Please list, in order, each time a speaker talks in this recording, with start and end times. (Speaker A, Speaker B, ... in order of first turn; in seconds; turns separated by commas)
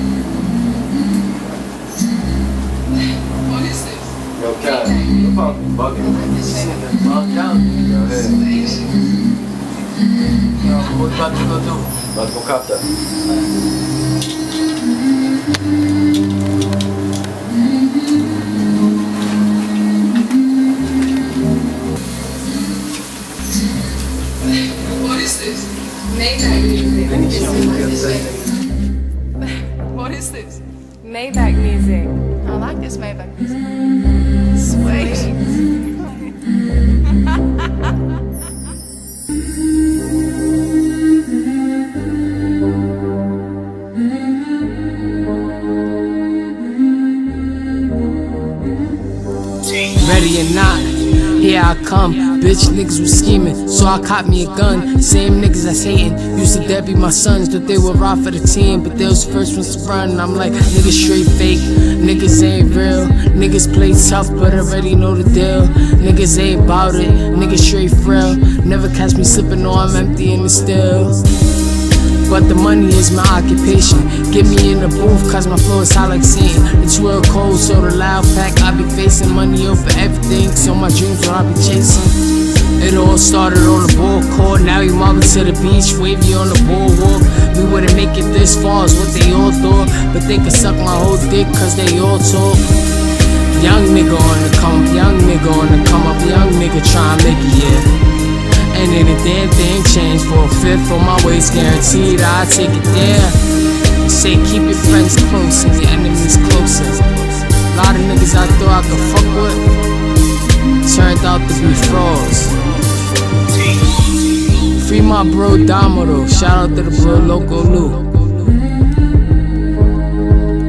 Speaker A: 3.3-6.9, Speaker B: 4.3-8.4, Speaker A: 8.1-8.9, Speaker C: 10.7-11.9, Speaker B: 12.0-12.9, Speaker A: 24.8-28.4, Speaker B: 27.1-28.5, Speaker A: 29.7-33.6, Speaker A: 34.5-35.4, Speaker C: 49.9-71.2, Speaker C: 72.3-82.2, Speaker C: 82.8-92.7, Speaker C: 93.5-97.9, Speaker C: 98.6-103.4, Speaker C: 104.0-109.6, Speaker C: 110.8-112.6, Speaker C: 114.8-118.3